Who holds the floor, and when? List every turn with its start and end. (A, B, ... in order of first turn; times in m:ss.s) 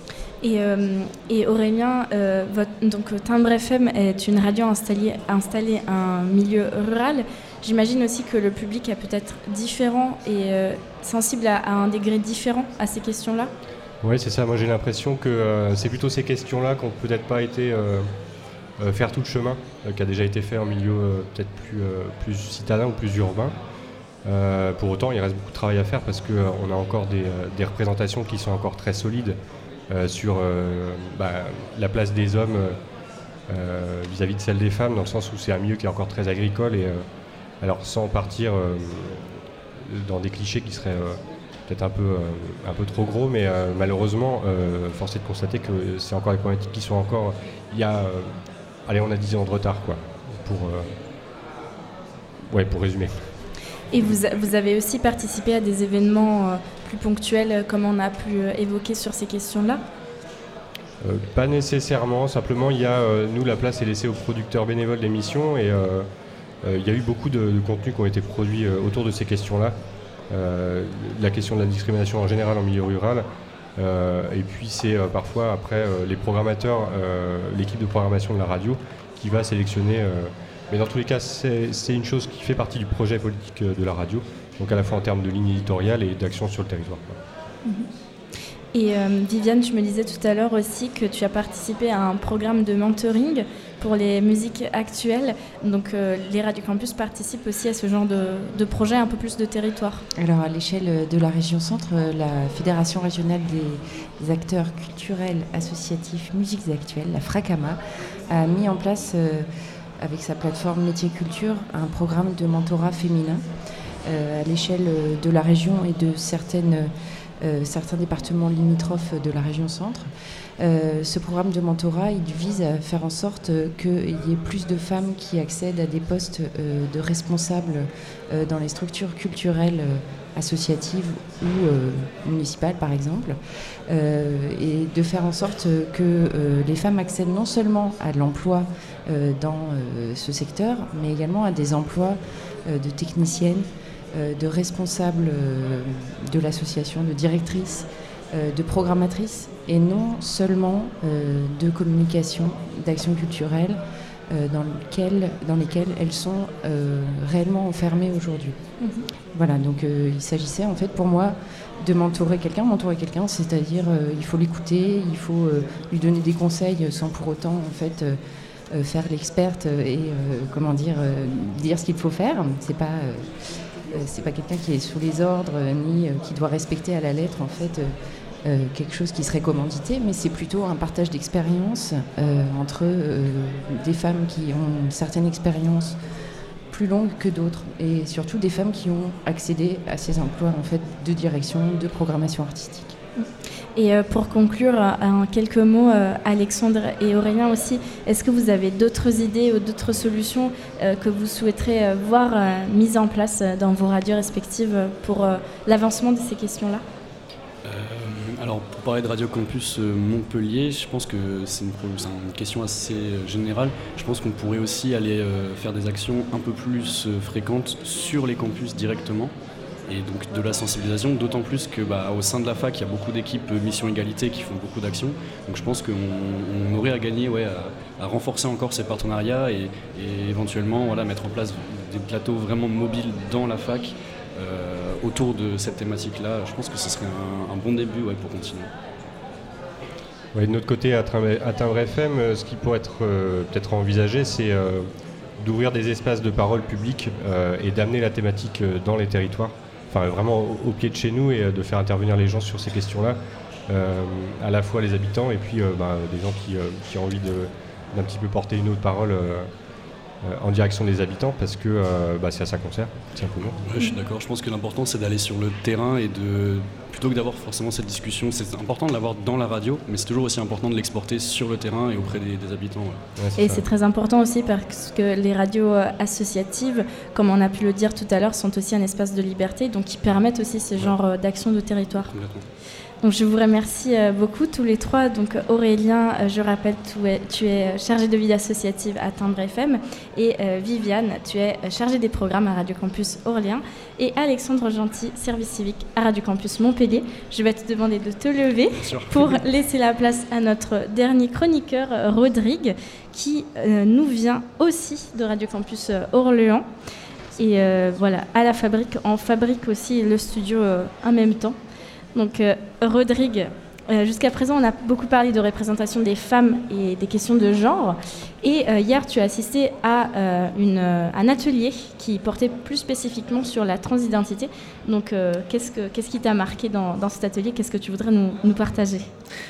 0:00.4-0:13.5 A
0:14.0-0:18.1 B
0:18.8-0:23.5 B
0:24.2-0:29.4 B
0:29.9-0:32.8 B
0:33.5-0:37.0 B
0:37.6-0:48.3 B
0:48.8-0:50.9 B
0:52.5-0:53.2 B
0:53.9-0:59.8 A
1:01.0-1:06.1 B
1:06.6-1:09.8 B
1:10.3-1:13.2 B
1:13.8-1:27.2 B
1:28.7-1:40.0 A
1:40.2-1:47.8 C
1:48.3-1:49.5 C
1:50.0-1:53.4 C
1:54.0-2:00.1 C
2:00.6-2:13.4 C
2:13.9-2:38.6 C
2:39.3-2:48.2 C
2:48.7-2:53.3 C
2:53.9-3:06.0 C
3:06.7-3:12.9 C
3:13.2-3:26.8 A
3:27.6-3:39.3 D
3:39.9-3:58.7 D
4:00.3-4:04.9 B
4:05.4-4:19.5 B
4:20.2-4:23.6 B
4:23.6-4:33.0 D
4:33.2-4:33.6 B
4:33.4-4:42.1 A
4:42.0-4:42.4 D
4:43.0-5:06.7 A
4:58.7-4:59.4 D
5:07.4-5:11.6 A
5:12.1-5:29.1 A